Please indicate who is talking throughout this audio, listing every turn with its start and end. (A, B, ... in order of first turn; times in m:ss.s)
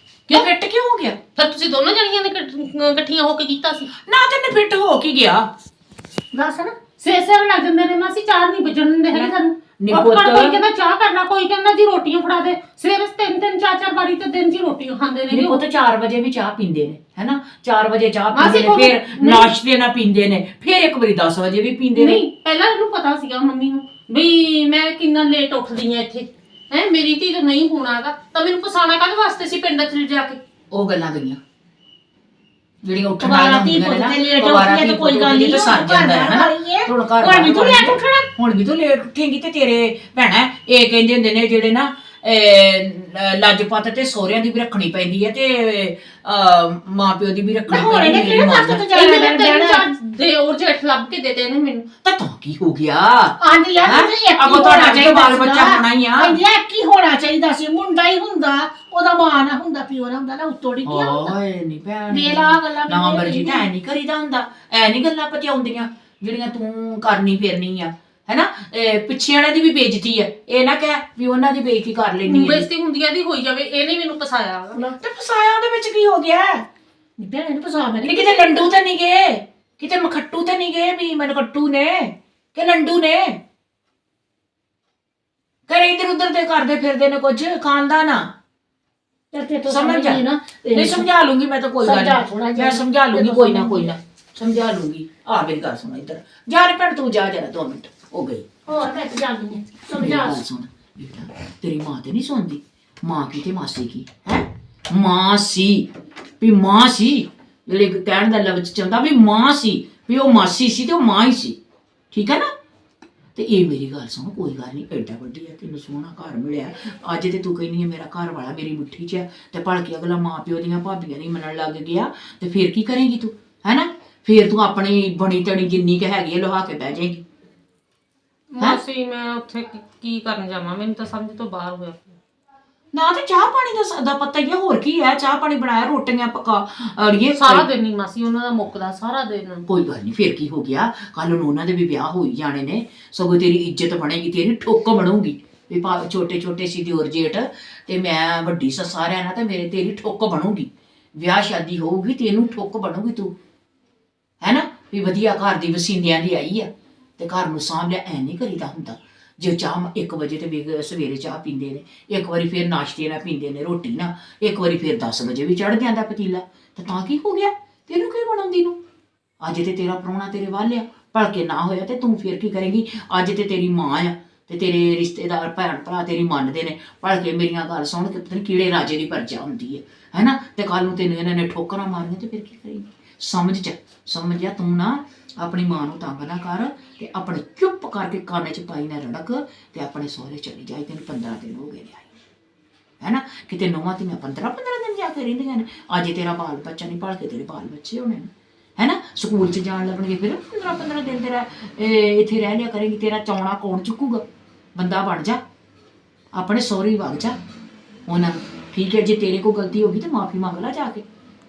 0:00.3-0:01.2 A
0:01.4-0:03.9 B
0:03.9-0:05.5 A
0:06.3-0:06.8 C
0:07.0-0:15.6 B
0:09.1-0:10.6 A
0:15.3-0:22.2 A
0:18.3-0:19.5 B
0:22.0-0:30.4 B
0:30.7-0:31.4 A
0:32.8-0:48.9 A
0:33.2-0:38.3 C
0:47.7-0:49.9 C
0:48.9-0:51.9 B
0:52.0-0:56.4 A
0:53.4-1:01.3 C
1:00.8-1:12.7 A
1:02.1-1:03.6 C
1:12.3-1:14.8 B
1:15.0-1:16.6 A
1:17.2-1:18.7 C
1:18.0-1:23.4 A
1:25.7-1:28.3 A
1:29.3-1:31.1 C
1:29.7-1:38.5 A
1:31.8-1:34.0 C
1:38.7-1:40.4 C
1:40.0-1:45.9 A
1:46.4-1:51.6 A
1:52.1-1:52.5 A
1:53.4-2:07.2 A
2:08.5-2:12.2 B
2:12.9-2:17.7 A
2:17.4-2:19.7 B
2:19.7-2:33.4 A
2:34.4-2:48.8 A
2:49.4-3:12.1 A
3:13.0-3:25.4 A
3:26.3-3:27.4 A
3:28.1-3:31.0 A